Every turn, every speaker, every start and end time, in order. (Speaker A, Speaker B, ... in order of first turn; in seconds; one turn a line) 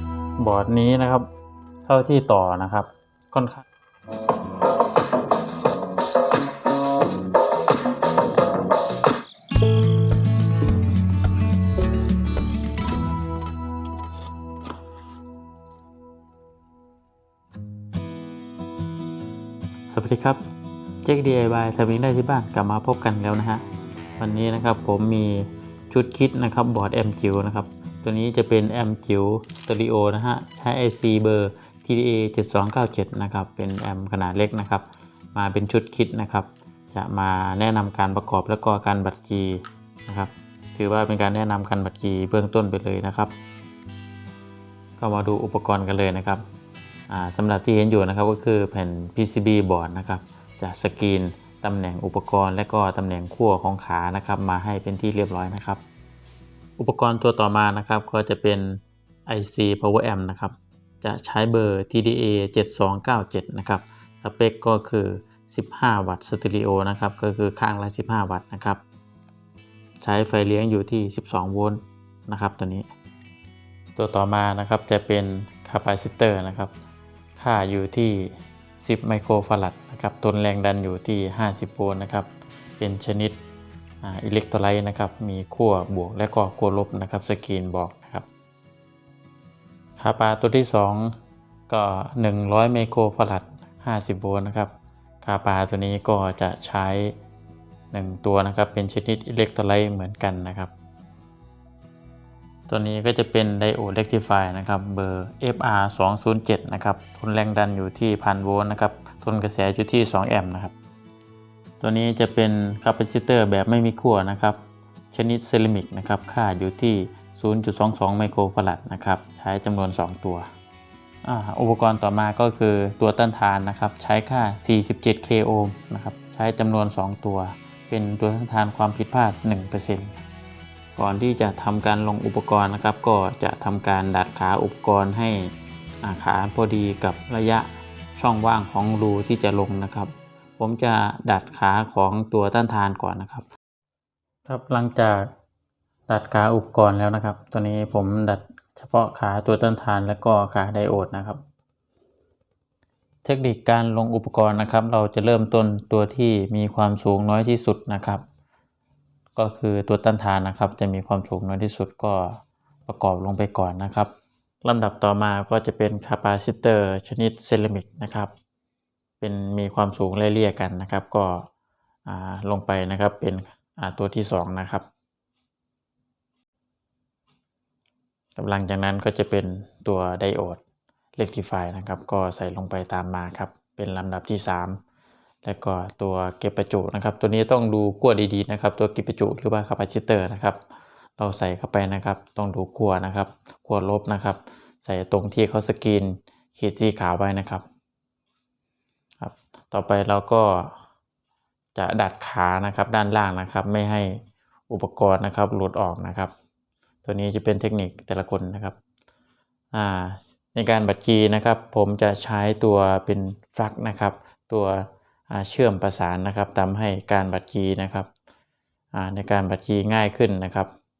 Speaker A: 0.4-1.3
Speaker A: 1.8-3.6
Speaker A: 19.9-20.4
Speaker A: 21.0-23.6
Speaker A: 24.2-43.3
Speaker A: 45.0-46.4
Speaker A: 47.1-55.8
Speaker A: 56.8-68.8
Speaker A: 70.0-72.9
Speaker A: 74.0-76.7
Speaker A: 77.3-83.4
Speaker A: 84.0-88.3
Speaker A: 90.0-91.1
Speaker A: 91.7-97.1
Speaker A: 97.9-100.7
Speaker A: 102.7-110.7
Speaker A: 111.8-120.5
Speaker A: 121.2-130.2
Speaker A: 130.9-135.5
Speaker A: 136.0-143.4
Speaker A: 144.4-145.3
Speaker A: 146.1-151.4
Speaker A: 153.2-158.2
Speaker A: 159.3-164.1
Speaker A: 164.6-168.3
Speaker A: 169.2-171.5
Speaker A: 172.1-174.8
Speaker A: 178.3-180.6
Speaker A: 181.2-184.8
Speaker A: 185.4-190.6
Speaker A: 191.2-197.6
Speaker A: 199.2-200.7
Speaker A: 201.7-204.2
Speaker A: 204.7-206.3
Speaker A: 207.0-208.8
Speaker A: 209.7-218.1
Speaker A: 218.9-220.7